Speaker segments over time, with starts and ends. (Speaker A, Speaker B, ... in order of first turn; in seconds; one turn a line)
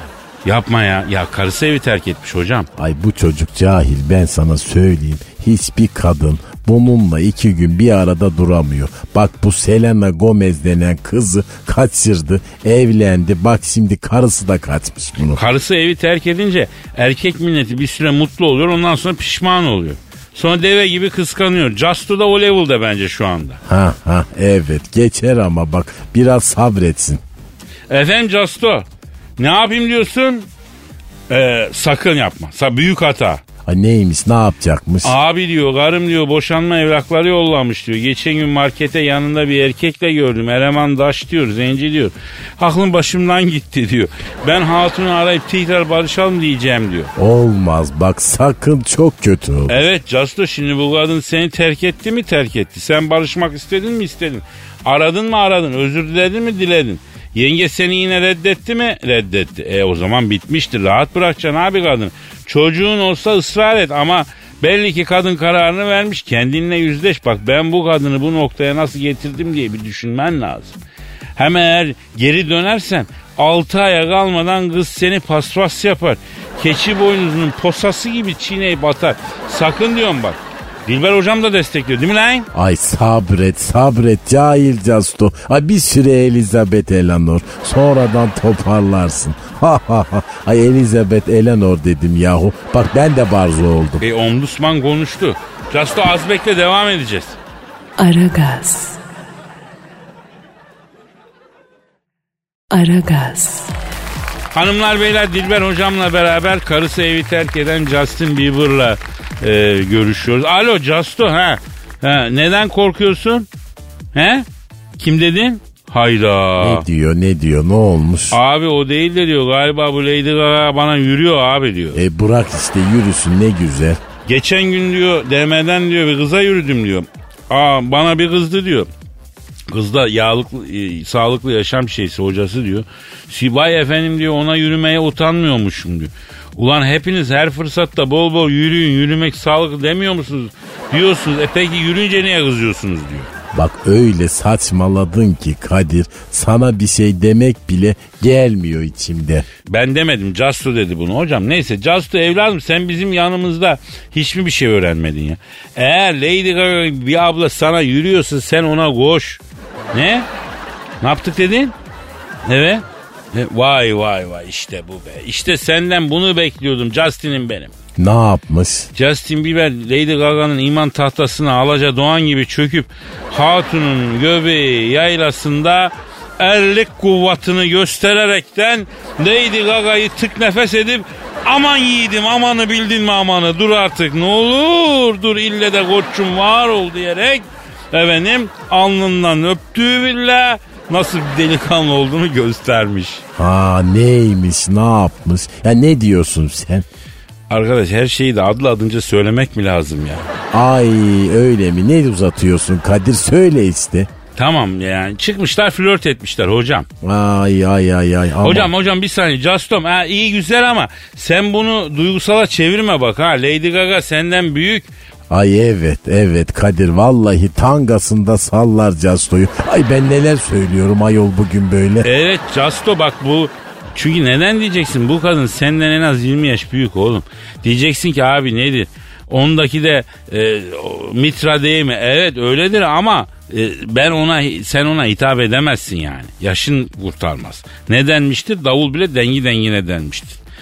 Speaker A: 0.5-2.7
Speaker B: 2.8-15.4
Speaker A: 15.3-23.6
Speaker B: 23.7-27.2
Speaker A: 27.9-28.9
Speaker A: 29.4-30.5
Speaker A: 31.3-33.4
Speaker B: 33.7-35.1
Speaker A: 35.0-47.1
Speaker B: 47.2-49.8
Speaker A: 49.7-70.8
Speaker A: 71.4-82.5
Speaker B: 82.5-94.0
Speaker A: 94.0-97.4
Speaker C: 98.0-99.0
Speaker C: 102.7-103.7
Speaker A: 104.5-113.5
Speaker A: 114.1-114.5
Speaker A: 115.0-116.8
Speaker B: 116.6-118.4
Speaker A: 118.3-122.0
Speaker B: 121.9-124.0
Speaker A: 124.3-128.9
Speaker A: 129.7-143.3
Speaker B: 143.5-149.5
Speaker A: 149.7-159.4
Speaker A: 159.9-160.3
Speaker A: 161.0-161.7
Speaker A: 162.4-167.7
Speaker B: 168.0-168.9
Speaker A: 169.0-193.2
Speaker B: 193.4-196.9
Speaker A: 197.5-200.3
Speaker B: 200.5-204.1
Speaker A: 204.4-206.9
Speaker B: 207.0-208.7
Speaker A: 208.4-214.9
Speaker B: 215.3-222.1
Speaker A: 222.0-240.4